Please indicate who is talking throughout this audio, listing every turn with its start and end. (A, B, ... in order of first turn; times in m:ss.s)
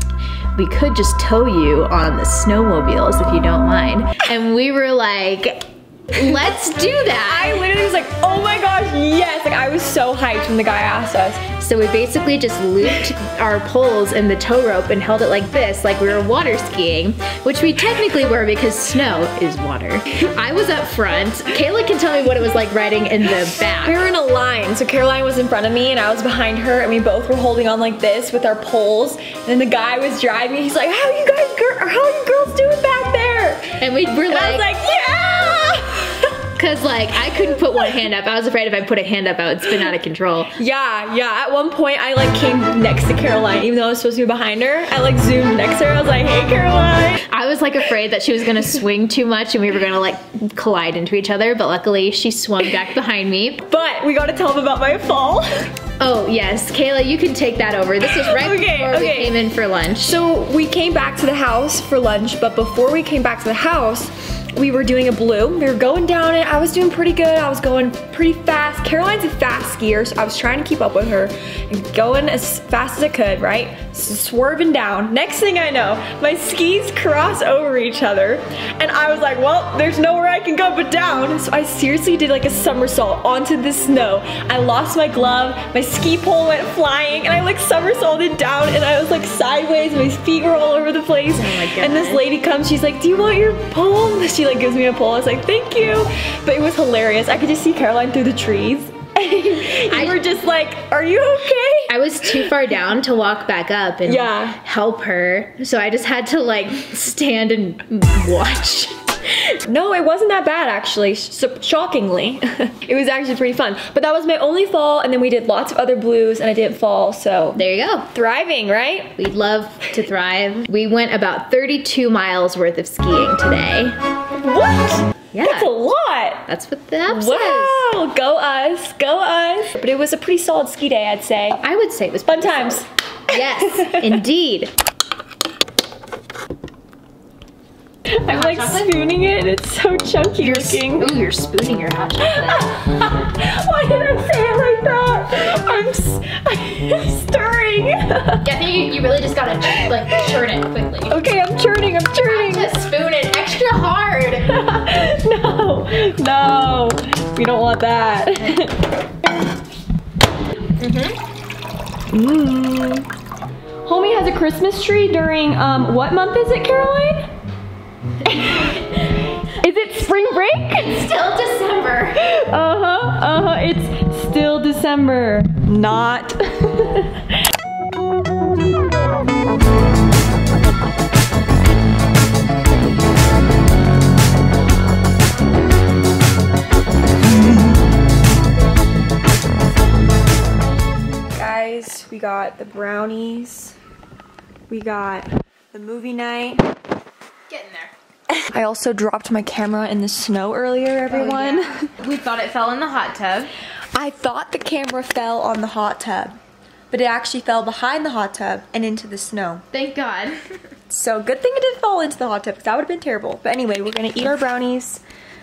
0:00.5-0:07.6 A
0:07.1-0:11.4 B
0:11.6-0:24.0 A
0:23.8-0:36.3 B
0:33.8-0:34.7 A
0:36.5-0:40.5 A
0:37.2-0:37.9 B
0:40.6-0:47.2 B
0:47.2-0:53.6 A
0:53.6-0:55.7 B
0:56.0-1:00.2 A
0:58.0-0:59.4 B
0:59.9-1:42.6 B
1:31.3-1:32.2 A
1:39.8-1:40.2 A
1:41.9-1:49.4 A
1:44.0-1:44.6 B
1:49.6-1:57.6 B
1:57.5-1:58.1 A
1:58.1-1:59.1 B
1:59.2-2:04.0 A
2:04.3-2:06.4 B
2:05.3-2:05.7 A
2:06.5-2:07.8 A
2:07.1-2:11.6 B
2:11.6-2:14.7 A
2:12.3-2:14.2 B
2:18.1-2:21.2 B
2:18.3-2:18.9 A
2:20.4-2:22.8 A
2:22.2-2:28.5 B
2:28.4-2:31.2 A
2:29.8-2:30.2 B
2:31.1-2:32.7 B
2:32.2-2:34.5 A
2:34.4-2:38.8 B
2:40.8-2:41.2 A
2:42.1-2:43.1 B
2:43.8-2:47.3 B
2:48.3-2:48.8 B
2:48.8-2:49.3 A
2:49.6-2:51.1 B
2:50.3-2:52.2 A
2:52.2-2:57.2 B
3:11.3-3:13.7 B
3:14.7-3:16.6 B
3:17.5-3:17.9 A
3:18.3-3:21.9 B
3:21.1-3:23.5 A
3:23.9-3:26.4 B
3:26.9-3:29.6 B
3:29.7-3:30.4 A
3:30.9-3:35.0 B